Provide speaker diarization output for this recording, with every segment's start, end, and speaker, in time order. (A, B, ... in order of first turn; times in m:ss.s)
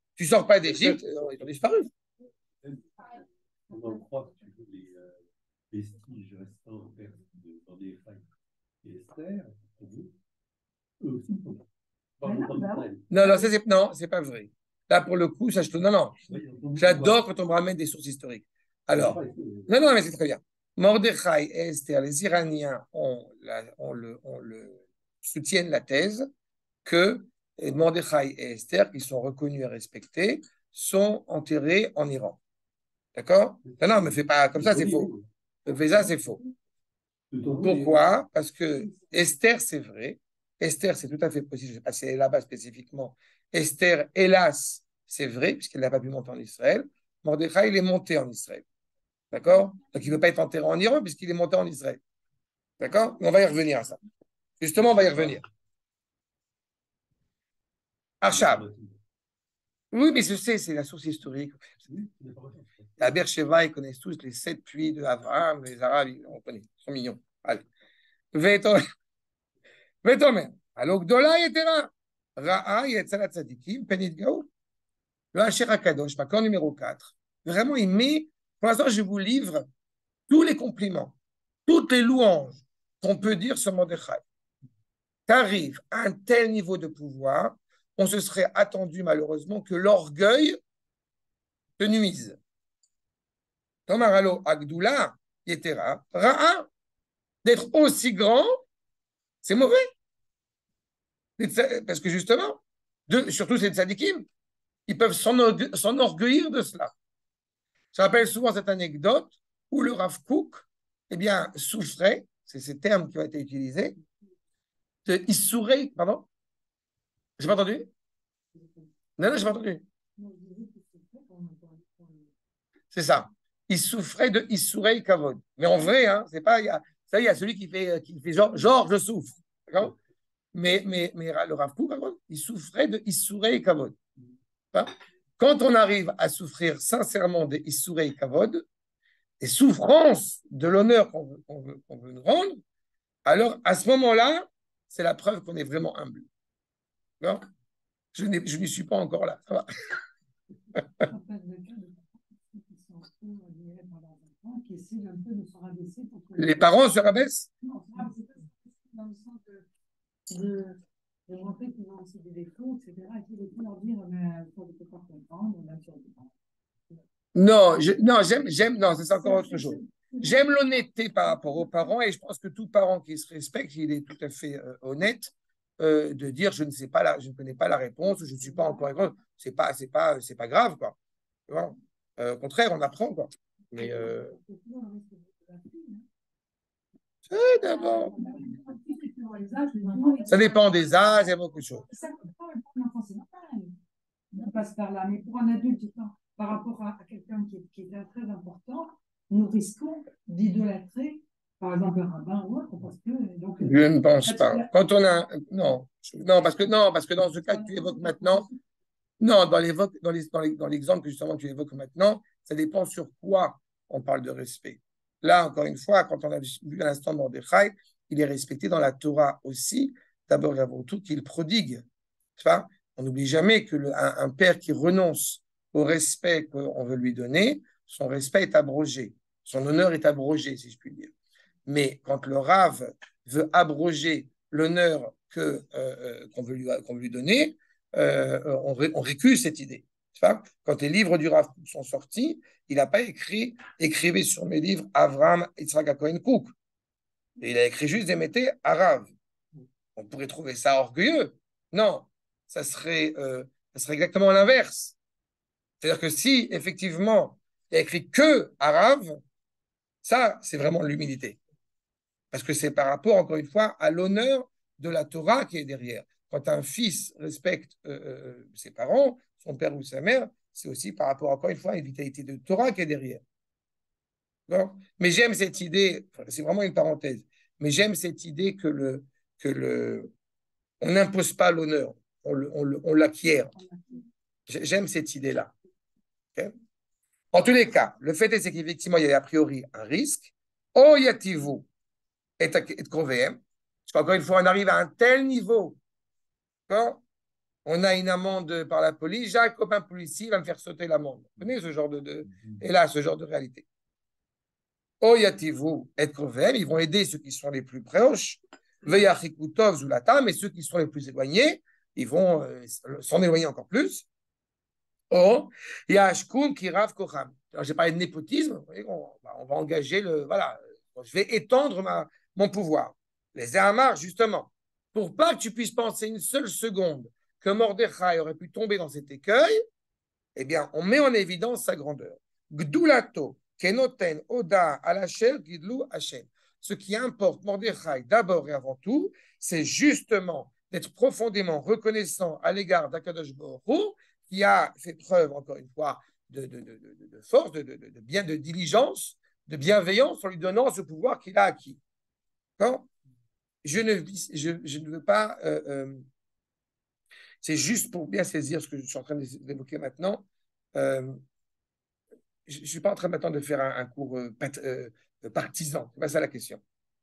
0:00.2-0:01.9 A
0:02.6-0:03.2 B
0:03.7-0:05.2 B
0:05.7-0:08.2 B
0:08.8-0:10.1 B
0:11.0-0:11.6 B
0:12.2-0:13.0 B
0:12.2-0:13.2 C
0:13.1-0:16.2 A
0:16.3-0:17.2 B
0:16.8-0:26.3 A
0:18.9-0:19.7 B
0:26.8-0:32.4 A
0:33.1-0:35.1 A
0:34.5-0:35.2 B
0:35.6-0:36.4 A
0:37.3-0:38.1 B
0:37.5-0:48.6 A
0:49.3-0:52.0 A
0:52.8-0:54.0 A
0:54.6-0:55.4 A
0:54.9-0:55.4 B
0:58.2-0:58.6 A
0:58.3-0:58.9 B
0:59.9-1:01.6 A
1:01.9-1:02.9 B
1:03.0-1:07.6 A
1:08.3-1:08.8 A
1:10.0-1:14.5 A
1:15.3-1:19.7 A
1:20.3-1:24.2 A
1:25.3-1:30.6 A
1:31.8-1:32.4 A
1:33.9-1:36.7 A
1:37.4-1:38.6 A
1:39.4-1:39.8 A
1:41.4-1:44.3 A
1:44.9-1:46.9 A
1:47.9-1:54.0 A
1:55.0-1:56.3 A
1:57.4-1:57.9 A
1:59.2-1:59.8 A
2:00.2-2:02.3 C
2:02.9-2:09.9 A
2:10.5-2:13.9 A
2:14.7-2:18.6 A
2:19.4-2:22.6 A
2:23.2-2:26.2 A
2:28.1-2:29.7 A
2:31.0-2:36.7 C
2:36.4-2:37.5 A
2:37.6-2:39.6 C
2:40.3-2:46.3 C
2:47.3-3:01.0 A
2:49.2-2:50.5 C
2:51.3-2:51.7 C
3:01.5-3:04.3 A
3:03.7-3:06.0 C
3:07.3-3:08.1 A
3:07.6-3:11.2 C
3:10.3-3:11.8 A
3:11.9-3:13.8 C
3:14.3-3:24.7 C
3:23.6-3:28.4 A
3:27.5-3:28.4 C
3:29.2-3:41.8 A
3:42.4-3:51.1 A
3:51.6-4:06.5 A
4:07.4-4:09.1 A
4:10.0-4:15.0 A
4:15.8-4:19.2 A
4:20.0-4:21.4 A
4:22.3-4:33.2 A
4:34.5-4:40.1 A
4:40.8-4:43.6 A
4:43.6-4:44.0 C
4:44.5-4:45.5 A
4:47.3-4:51.7 A
4:52.4-4:55.8 A
4:56.7-4:57.0 A
4:57.6-5:03.6 A
5:05.0-5:14.0 A
5:15.1-5:29.6 A
5:30.3-5:51.8 A
5:52.6-5:52.9 A
5:53.6-5:56.0 A
5:57.4-6:01.2 A
6:02.5-6:06.6 A